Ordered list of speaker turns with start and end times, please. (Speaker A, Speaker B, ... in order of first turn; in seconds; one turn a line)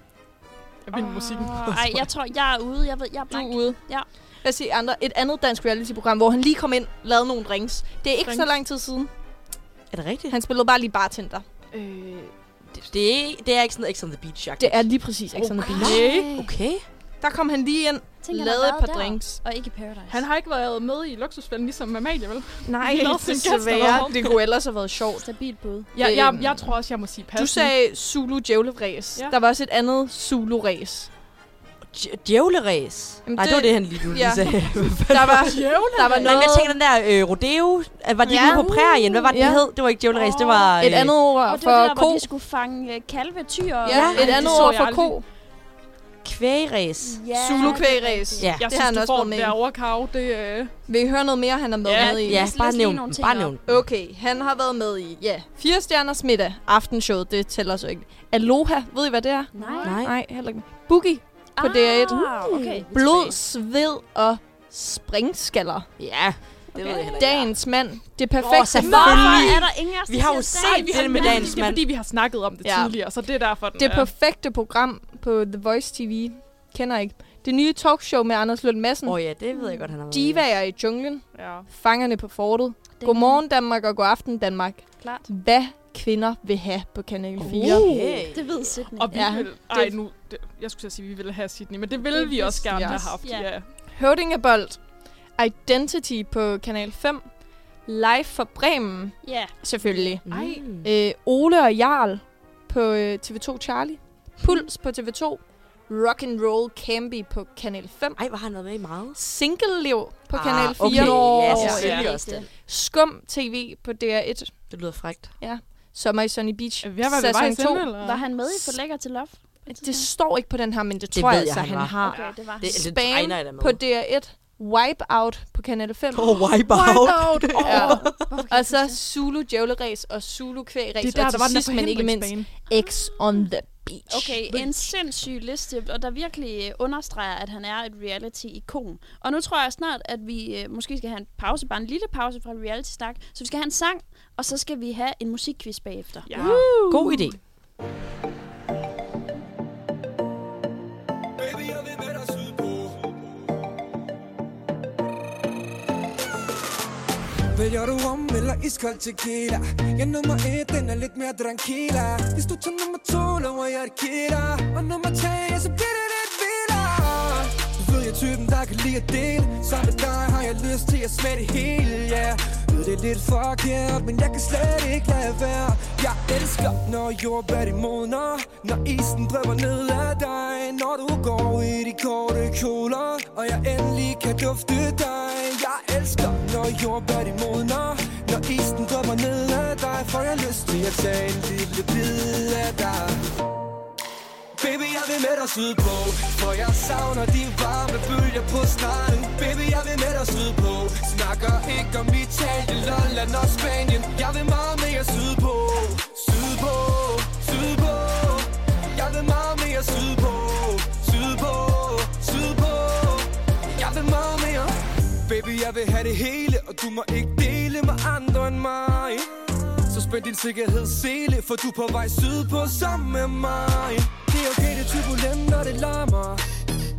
Speaker A: 0.8-1.9
Speaker B: 0.9-4.1
Speaker C: 3.3-3.8
Speaker C: 4.4-9.1
Speaker A: 8.2-8.5
Speaker D: 9.9-10.4
Speaker C: 10.3-12.9
Speaker D: 12.9-16.9
Speaker C: 14.6-16.2
Speaker A: 15.6-16.4
Speaker C: 17.2-19.4
Speaker B: 18.2-20.2
Speaker A: 20.1-24.4
Speaker C: 22.6-25.3
Speaker B: 25.2-25.9
Speaker C: 25.9-31.1
Speaker A: 26.0-27.7
Speaker D: 31.9-41.2
Speaker C: 33.3-36.8
Speaker A: 35.5-36.5
Speaker C: 38.2-39.7
Speaker B: 38.4-39.3
Speaker B: 40.1-40.7
Speaker C: 40.8-42.3
Speaker B: 41.5-44.7
Speaker C: 43.9-45.2
Speaker D: 43.9-44.6
Speaker A: 44.1-45.1
Speaker D: 46.2-47.2
Speaker B: 47.0-48.5
Speaker C: 47.3-49.6
Speaker D: 48.4-48.7
Speaker A: 48.5-50.7
Speaker C: 50.9-52.5
Speaker A: 51.8-52.2
Speaker B: 52.0-53.5
Speaker D: 52.0-53.8
Speaker C: 53.6-65.9
Speaker B: 59.5-59.9
Speaker A: 59.6-60.0
Speaker D: 59.8-60.2
Speaker B: 61.6-63.4
Speaker D: 66.0-67.5
Speaker B: 66.7-67.2
Speaker C: 67.2-69.5
Speaker D: 68.4-71.8
Speaker B: 68.8-71.7
Speaker A: 70.7-74.1
Speaker C: 72.6-73.2
Speaker C: 73.8-79.2
Speaker D: 79.0-80.5
Speaker B: 79.5-79.8
Speaker C: 80.1-88.0
Speaker A: 81.3-81.7
Speaker B: 83.0-83.4
Speaker B: 85.0-85.3
Speaker D: 87.4-88.7
Speaker A: 87.5-88.1
Speaker B: 88.3-89.8
Speaker A: 89.0-93.7
Speaker C: 89.1-89.9
Speaker C: 92.1-93.2
Speaker B: 92.1-93.5
Speaker C: 93.9-94.8
Speaker C: 95.4-97.3
Speaker C: 97.9-108.2
Speaker B: 99.2-100.2
Speaker D: 100.3-100.9
Speaker A: 100.3-100.6
Speaker D: 108.2-109.2
Speaker C: 109.2-114.7
Speaker D: 110.3-112.5
Speaker A: 110.9-112.1
Speaker B: 111.2-112.5
Speaker D: 114.7-115.4
Speaker C: 115.4-118.0
Speaker A: 116.8-118.2
Speaker B: 118.0-120.1
Speaker C: 119.7-126.4
Speaker D: 121.1-122.0
Speaker B: 122.1-122.8
Speaker A: 122.1-122.3
Speaker D: 122.6-123.8
Speaker D: 126.1-128.2
Speaker A: 126.7-128.6
Speaker C: 127.6-134.6
Speaker B: 127.9-129.0
Speaker A: 131.0-132.6
Speaker B: 134.1-146.4
Speaker A: 146.3-147.2
Speaker D: 146.3-147.4
Speaker C: 146.4-146.7
Speaker E: 151.4-153.1
Speaker E: 157.5-193.2
Speaker E: 194.6-219.3
Speaker E: 219.9-226.4